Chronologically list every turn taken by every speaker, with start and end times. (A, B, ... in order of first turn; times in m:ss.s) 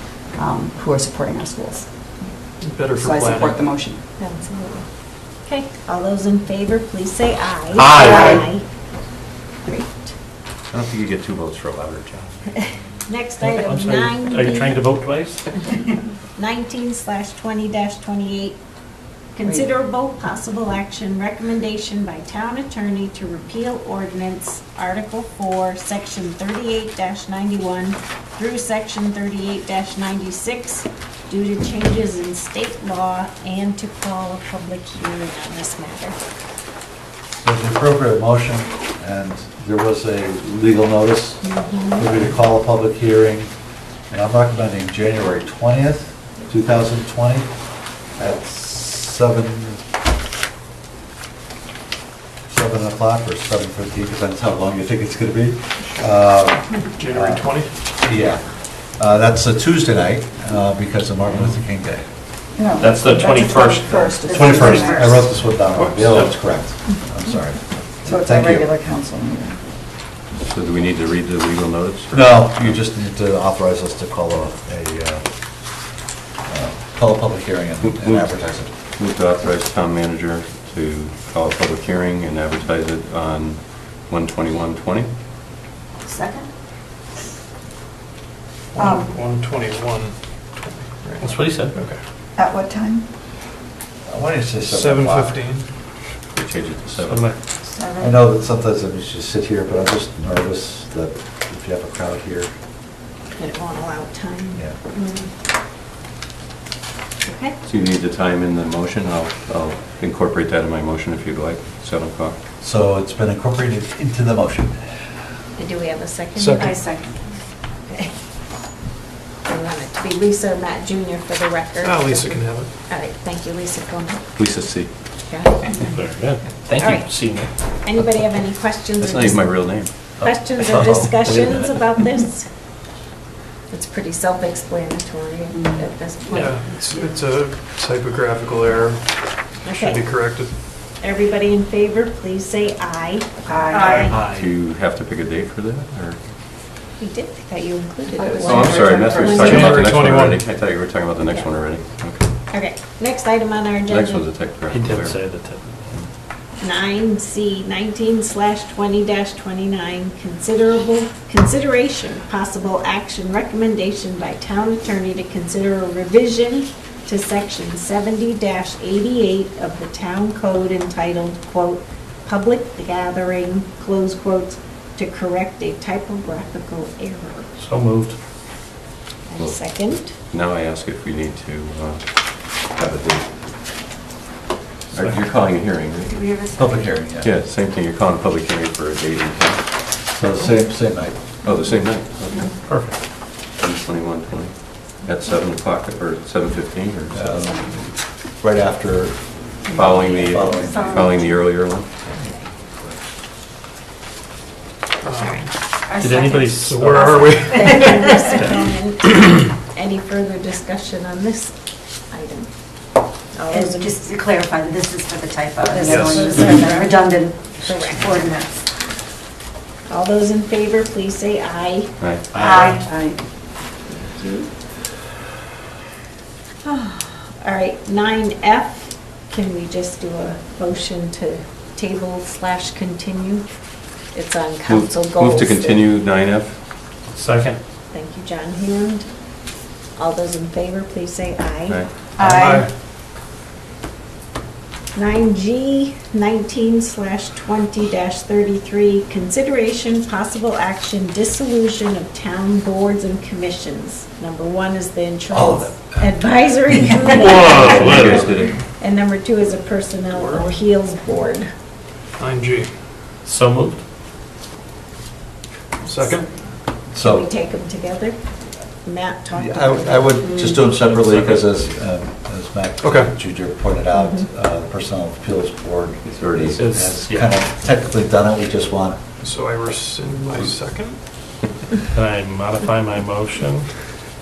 0:00.3-0:01.9 A
0:02.7-0:03.6 B
0:02.9-0:04.0 A
0:04.2-0:04.8 C
0:05.4-0:08.6 C
0:08.0-0:08.3 D
0:08.0-0:08.4 A
0:09.6-0:10.1 C
0:10.7-0:12.6 E
0:13.0-0:14.8 C
0:13.4-0:15.4 D
0:16.3-0:18.6 C
0:19.3-0:36.2 C
0:37.4-0:43.5 F
0:41.4-0:42.2 C
0:44.1-0:47.5 F
0:48.2-0:49.8 F
0:52.5-0:57.5 F
0:57.0-0:57.7 B
0:58.0-1:02.0 F
1:02.6-1:05.2 A
1:02.8-1:05.0 D
1:04.3-1:08.6 F
1:05.8-1:06.1 B
1:08.0-1:09.6 A
1:10.5-1:12.8 E
1:12.1-1:15.2 F
1:16.4-1:18.7 F
1:17.8-1:18.3 E
1:19.0-1:25.1 E
1:26.2-1:26.4 G
1:28.7-1:30.1 B
1:28.8-1:29.1 A
1:31.2-1:31.8 D
1:32.4-1:33.0 A
1:34.0-1:35.4 F
1:34.7-1:35.6 B
1:36.3-1:37.3 E
1:37.0-1:37.4 D
1:37.9-1:42.5 F
1:43.3-1:44.6 C
1:47.2-1:47.6 C
1:47.6-1:52.4 E
1:52.6-1:54.8 F
1:55.6-1:56.7 C
1:56.4-1:56.8 B
1:56.6-1:57.0 A
1:59.5-2:04.2 C
2:01.8-2:02.7 B
2:04.4-2:04.9 E
2:05.3-2:05.7 C
2:05.8-2:07.5 D
2:06.7-2:07.1 C
2:07.8-2:09.7 C
2:09.0-2:09.9 E
2:10.2-2:12.5 C
2:10.2-2:11.0 D
2:11.2-2:11.5 E
2:13.7-2:16.6 C
2:16.3-2:19.0 B
2:19.6-2:20.1 C
2:19.7-2:20.5 B
2:21.0-2:24.1 C
2:23.5-2:24.1 A
2:23.7-2:24.0 G
2:23.9-2:24.4 B
2:23.9-2:26.2 E
2:27.0-2:29.7 C
2:28.2-2:29.4 A
2:28.4-2:32.3 E
2:29.3-2:30.4 B
2:29.4-2:29.9 D
2:32.5-2:34.2 C
2:33.9-2:35.2 E
2:34.7-2:36.0 D
2:36.6-2:57.5 C
2:57.6-2:58.2 D
2:59.3-3:00.1 C
2:59.4-3:03.3 E
3:04.9-3:06.3 E
3:06.2-3:06.7 G
3:06.5-3:07.4 F
3:07.2-3:09.6 E
3:10.1-3:11.2 F
3:11.4-3:17.3 E
3:12.6-3:13.0 D
3:17.1-3:21.1 F
3:19.7-3:21.9 E
3:25.0-3:25.4 B
3:25.0-3:25.5 C
3:25.9-3:26.5 G
3:26.0-3:27.4 D
3:26.6-3:28.0 B
3:26.9-3:31.6 C
3:27.4-3:28.2 G
3:32.1-3:32.5 C
3:33.3-3:33.9 C
3:33.5-3:38.5 G
3:35.7-3:36.8 A
3:35.9-3:36.5 B
3:36.5-3:36.8 C
3:37.6-3:38.2 C
3:39.9-3:41.9 C
3:42.0-3:42.3 E
3:42.3-3:42.8 F
3:42.4-3:42.9 G
3:43.9-3:44.5 C
3:46.6-3:53.4 C
3:54.1-3:55.8 C
3:54.7-3:56.6 E
3:57.1-3:57.6 D
3:57.9-3:59.1 C
4:00.0-4:01.8 C
4:02.2-4:02.6 A
4:02.2-4:02.6 B
4:04.9-4:21.5 C
4:15.3-4:16.1 F
4:17.0-4:18.2 D
4:17.6-4:18.6 E
4:22.2-4:22.7 B
4:23.2-4:23.8 D
4:25.8-4:26.2 B
4:26.9-4:27.3 F
4:27.0-4:28.2 C
4:28.8-4:30.3 C
4:29.3-4:39.0 F
4:31.0-4:31.4 B
4:32.8-4:33.1 B
4:33.9-4:34.3 C
4:36.0-4:36.6 E
4:36.5-4:37.4 D
4:39.2-4:41.0 B
4:41.9-4:43.7 D